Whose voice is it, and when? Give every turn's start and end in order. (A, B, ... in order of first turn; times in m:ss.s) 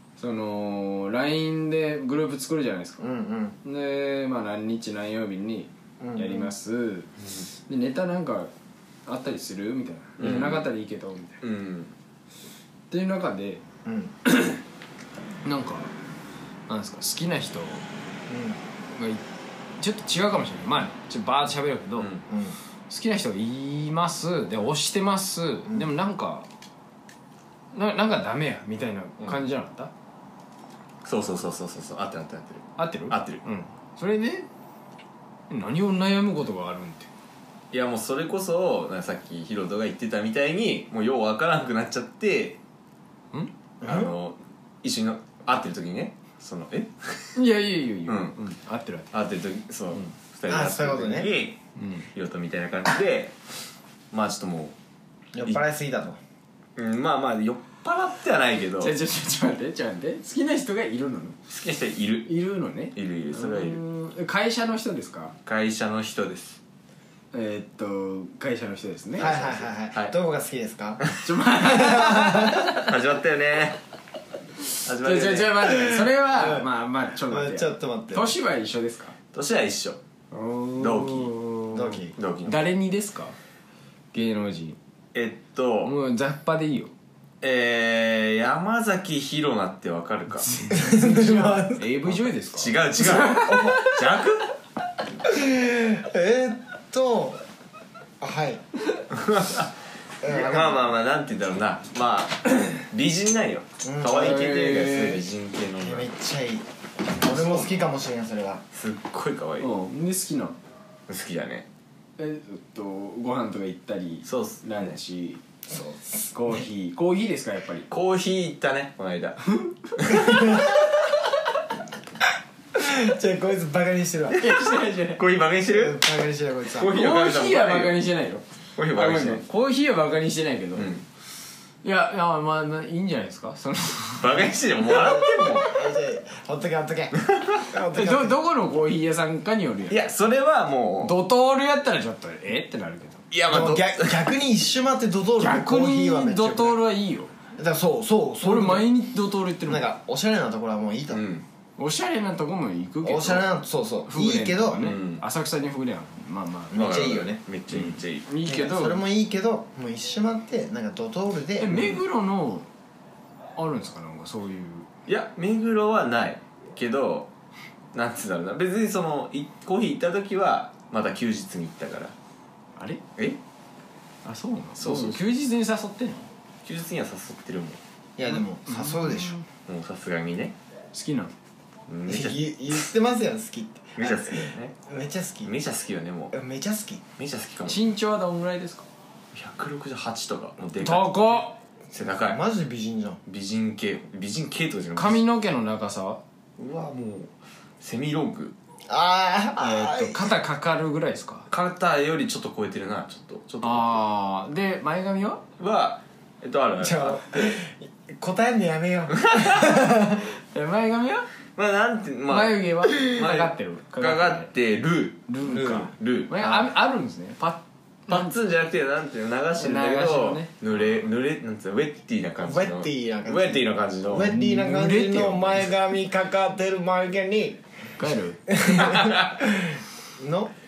0:00.2-0:03.0 A
0:03.0-0:03.6 B
0:03.6-0:07.1 A
0:06.0-0:06.5 B
0:07.2-0:07.5 C
0:07.7-0:08.5 A
0:09.1-0:11.4 A
0:10.2-0:10.7 C
0:11.4-0:11.9 C
0:12.9-0:13.6 A
0:13.8-0:14.1 B
0:14.2-0:14.6 A
0:15.4-0:15.9 A
0:16.7-0:17.8 A
0:18.3-0:18.6 B
0:19.0-0:19.2 A
0:19.8-0:22.1 A
0:22.0-0:22.2 C
0:22.3-0:22.6 B
0:22.9-0:26.5 A
0:27.7-0:29.9 A
0:31.0-0:33.4 C
0:32.8-0:34.5 A
0:35.5-0:37.1 A
0:37.7-0:42.6 C
0:43.8-0:44.1 B
0:43.8-0:47.4 C
0:47.4-0:49.1 A
0:48.1-0:48.4 C
0:49.1-0:51.6 C
0:50.5-0:51.3 B
0:51.8-0:52.1 A
0:52.1-0:53.3 C
0:54.1-0:54.7 C
0:55.3-0:56.2 B
0:56.8-0:59.0 C
0:58.8-1:01.4 A
1:01.5-1:02.4 C
1:02.3-1:05.4 A
1:02.9-1:03.8 C
1:05.5-1:06.6 C
1:07.3-1:09.7 A
1:09.2-1:11.1 B
1:11.2-1:12.9 A
1:11.6-1:12.6 B
1:12.7-1:13.8 C
1:14.8-1:15.9 C
1:15.0-1:19.1 A
1:16.1-1:16.7 B
1:17.3-1:18.4 B
1:19.3-1:20.0 C
1:20.3-1:23.4 A
1:20.8-1:21.4 C
1:21.7-1:22.2 B
1:22.2-1:22.7 C
1:24.1-1:24.8 A
1:25.1-1:25.9 C
1:25.8-1:26.9 A
1:27.4-1:30.5 C
1:30.4-1:33.7 A
1:30.7-1:32.0 B
1:32.5-1:34.5 C
1:33.1-1:33.9 B
1:35.3-1:37.4 B
1:38.2-1:38.6 B
1:39.1-1:46.1 C
1:40.2-1:40.8 B
1:43.8-1:44.4 B
1:44.1-1:45.2 A
1:45.8-1:48.6 B
1:47.2-1:47.9 C
1:48.7-1:49.7 C
1:49.6-1:50.6 A
1:51.1-1:51.7 C
1:52.2-1:55.4 A
1:54.2-1:54.9 C
1:55.7-1:56.4 B
1:56.3-1:57.9 A
1:57.9-2:00.8 C
2:00.1-2:00.7 B
2:02.8-2:04.4 B
2:04.4-2:05.2 A
2:05.1-2:06.0 C
2:05.7-2:06.9 B
2:06.7-2:08.0 C
2:06.9-2:11.0 A
2:08.8-2:09.4 C
2:10.8-2:11.0 C
2:11.8-2:14.4 A
2:14.2-2:15.7 C
2:14.8-2:18.4 B
2:17.2-2:17.6 C
2:17.9-2:20.0 A
2:19.9-2:21.2 C
2:21.0-2:23.2 A
2:23.3-2:24.3 C
2:23.5-2:26.8 B
2:25.4-2:27.3 A
2:27.6-2:29.0 B
2:28.4-2:29.9 A
2:29.7-2:31.2 B
2:31.1-2:31.4 C
2:31.8-2:33.5 A
2:33.0-2:34.9 B
2:34.1-2:37.1 A
2:34.8-2:35.2 C
2:36.7-2:37.4 B
2:36.7-2:38.3 C
2:37.7-2:39.0 A
2:38.4-2:41.9 B
2:41.6-2:42.7 A
2:41.7-2:42.0 C
2:43.6-2:44.9 A
2:45.1-2:47.3 C
2:47.9-2:52.1 C
2:52.8-2:53.0 A
2:54.2-2:56.3 A
2:54.8-2:55.2 C
2:56.6-2:57.8 C
2:58.2-2:59.4 B
2:58.3-2:59.5 A
2:59.7-3:00.6 C
3:00.9-3:01.3 A
3:01.9-3:02.4 C
3:02.1-3:05.5 B
3:04.0-3:04.8 C
3:05.4-3:06.4 C
3:06.3-3:07.0 B
3:07.2-3:07.8 C
3:07.6-3:08.8 A
3:09.3-3:12.4 C
3:10.8-3:11.6 A
3:12.0-3:13.2 B
3:13.3-3:15.2 C
3:15.0-3:16.2 A
3:16.6-3:18.6 C
3:18.9-3:20.3 B
3:19.6-3:21.5 A
3:21.5-3:24.0 C
3:23.6-3:25.4 A
3:25.6-3:27.6 C
3:26.8-3:30.3 B
3:29.2-3:29.8 C
3:30.2-3:31.3 A
3:31.6-3:36.5 C
3:32.3-3:34.5 A
3:35.3-3:38.3 A
3:38.1-3:44.3 C
3:39.6-3:40.5 A
3:42.4-3:47.6 B
3:44.2-3:45.8 A
3:48.0-3:48.4 A
3:48.5-3:50.5 B
3:48.7-3:49.4 C